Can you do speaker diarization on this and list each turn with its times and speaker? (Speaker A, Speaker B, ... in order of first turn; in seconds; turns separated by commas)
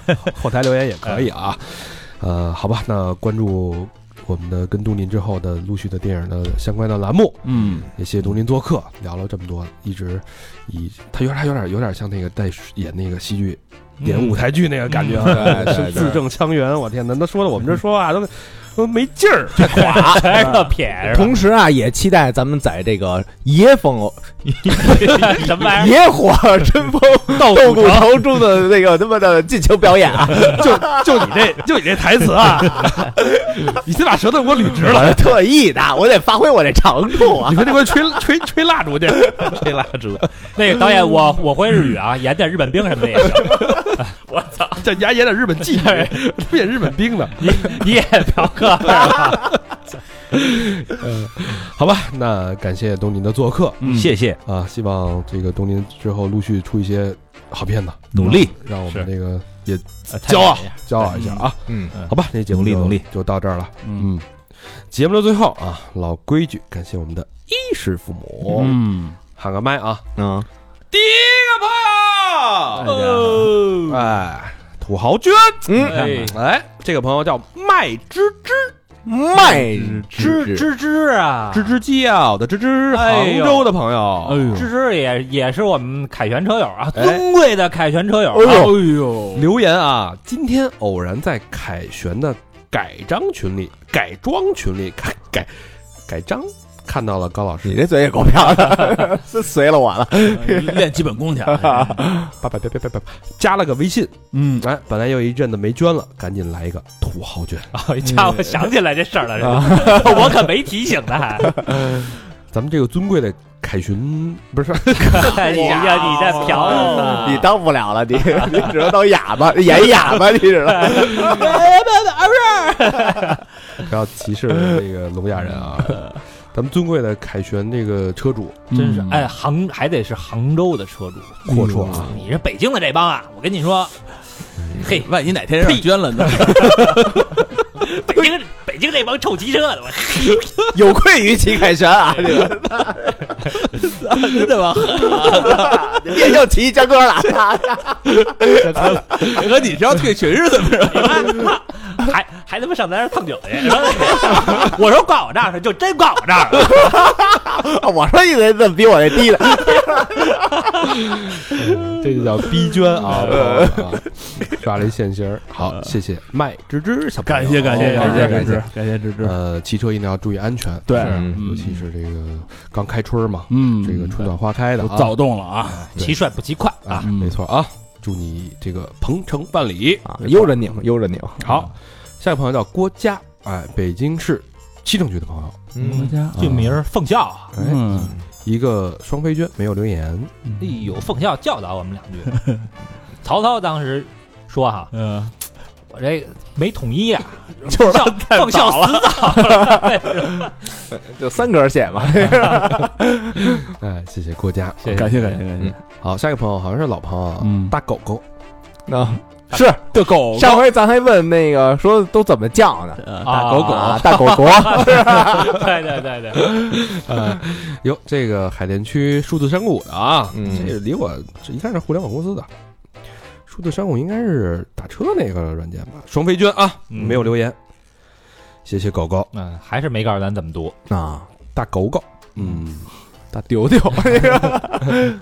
Speaker A: 0.2-20.3, Speaker B: 7.5-7.9, Speaker C: 14.0-15.6, Speaker D: 15.2-16.2, Speaker C: 19.6-21.4, Speaker D: 19.6-31.3, Speaker C: 24.8-26.0, Speaker C: 27.3-28.2, Speaker A: 30.4-35.4, Speaker D: 34.8-37.8, Speaker A: 37.3-39.7, Speaker E: 39.4-40.3, Speaker C: 40.6-44.7, Speaker A: 44.8-47.8, Speaker C: 45.7-46.2, Speaker C: 47.4-49.6, Speaker A: 48.9-49.5, Speaker A: 50.3-64.3, Speaker B: 53.8-54.1, Speaker E: 53.8-54.4, Speaker E: 58.1-58.5, Speaker C: 60.1-61.4, Speaker B: 61.2-61.4, Speaker E: 62.5-63.0, Speaker B: 63.8-64.1, Speaker A: 64.9-68.8, Speaker B: 68.5-69.2, Speaker A: 69.4-70.0, Speaker D: 70.2-70.5, Speaker A: 70.9-72.9, Speaker B: 72.8-73.8, Speaker C: 72.8-73.9, Speaker A: 73.9-78.7, Speaker D: 75.7-76.2, Speaker C: 75.8-76.4, Speaker B: 76.0-76.3, Speaker D: 79.1-80.7, Speaker B: 79.6-80.1, Speaker C: 80.1-81.8, Speaker A: 81.5-84.5, Speaker C: 82.9-83.7, Speaker B: 84.2-84.7, Speaker C: 84.5-88.8, Speaker A: 87.0-87.2, Speaker D: 88.3-88.9, Speaker B: 88.4-89.5, Speaker A: 89.3-95.5, Speaker A: 96.1-97.8, Speaker D: 97.6-100.9, Speaker B: 100.2-102.0, Speaker D: 101.6-102.2, Speaker A: 102.3-107.7, Speaker B: 104.3-104.7, Speaker C: 107.7-111.6, Speaker B: 108.0-108.7, Speaker D: 109.4-110.3, Speaker A: 111.7-115.8, Speaker C: 115.1-117.5, Speaker D: 115.2-121.6, Speaker C: 118.3-118.8, Speaker C: 119.7-123.5, Speaker A: 123.8-128.7, Speaker B: 128.7-129.3, Speaker C: 128.7-134.0, Speaker A: 131.5-132.2, Speaker B: 131.5-132.1, Speaker C: 134.8-140.5, Speaker B: 134.9-137.2, Speaker D: 140.7-143.2, Speaker B: 143.8-145.8, Speaker C: 145.0-145.7, Speaker D: 145.0-149.0, Speaker B: 148.3-151.5, Speaker C: 150.9-157.0, Speaker D: 156.7-160.5, Speaker A: 161.5-168.7, Speaker D: 163.2-163.9, Speaker B: 167.2-169.4, Speaker C: 167.7-168.4, Speaker D: 168.2-168.6, Speaker A: 169.2-175.2, Speaker B: 170.9-171.8, Speaker D: 171.0-171.4, Speaker B: 173.5-176.0, Speaker C: 175.7-177.1, Speaker A: 176.8-180.1, Speaker B: 177.0-177.4, Speaker D: 180.1-181.5, Speaker A: 181.4-185.7, Speaker D: 185.8-186.2, Speaker B: 185.8-186.7, Speaker C: 186.3-187.5, Speaker B: 187.6-188.2, Speaker A: 187.6-190.3, Speaker C: 190.6-192.4, Speaker C: 193.2-194.9, Speaker B: 194.9-195.3, Speaker C: 195.9-200.7, Speaker B: 197.7-199.4, Speaker D: 199.4-199.8, Speaker D: 200.9-203.0, Speaker A: 203.3-205.4, Speaker C: 204.8-205.4, Speaker B: 204.9-205.8, Speaker A: 206.0-208.2, Speaker B: 207.4-207.8, Speaker D: 208.9-215.6, Speaker B: 209.9-210.7, Speaker B: 213.0-214.3, Speaker C: 213.2-216.5, Speaker A: 216.4-222.5, Speaker D: 220.3-220.8, Speaker A: 223.5-227.6, Speaker C: 226.9-227.3, Speaker A: 228.7-229.3, Speaker C: 229.3-230.8, Speaker D: 230.9-231.3, Speaker A: 231.5-232.9, Speaker D: 233.3-235.1